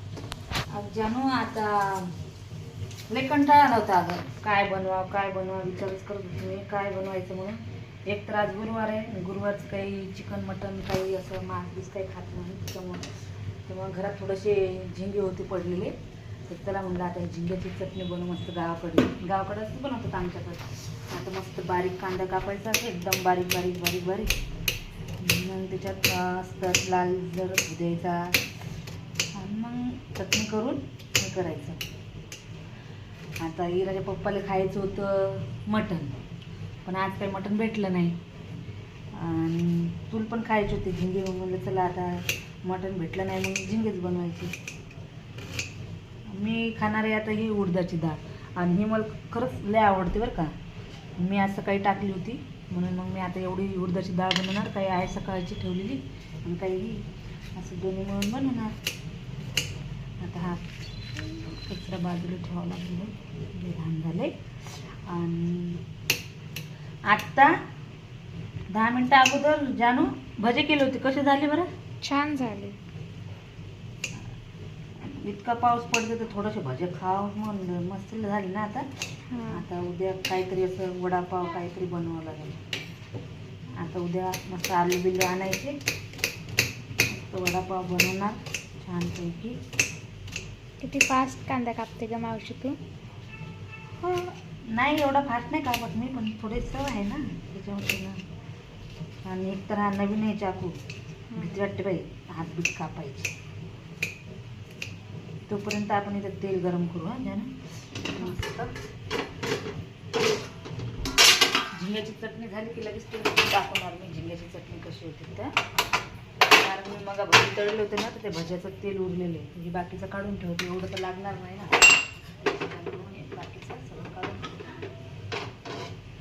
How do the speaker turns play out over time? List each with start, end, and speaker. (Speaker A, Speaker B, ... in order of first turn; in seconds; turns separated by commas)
Speaker A: 0.7-2.1, Speaker A: 3.1-13.1, Speaker A: 13.7-15.9, Speaker A: 16.5-24.3, Speaker A: 25.2-28.4, Speaker A: 29.4-31.8, Speaker A: 33.4-36.2, Speaker A: 36.9-38.1, Speaker A: 39.1-44.5, Speaker A: 46.3-50.5, Speaker A: 51.2-57.0, Speaker A: 57.5-58.7, Speaker A: 60.2-60.6, Speaker A: 61.1-64.3, Speaker A: 65.1-65.8, Speaker A: 67.1-67.5, Speaker A: 68.7-71.7, Speaker B: 72.0-72.8, Speaker A: 75.0-82.6, Speaker B: 79.3-79.6, Speaker A: 83.8-85.7, Speaker A: 87.1-89.6, Speaker B: 90.8-92.8, Speaker B: 94.0-94.3, Speaker A: 94.7-98.2, Speaker A: 99.2-100.8, Speaker B: 101.3-101.6, Speaker A: 101.3-103.3, Speaker A: 105.5-107.5, Speaker A: 108.1-108.7, Speaker A: 111.7-115.5, Speaker A: 116.5-121.8, Speaker A: 122.4-124.7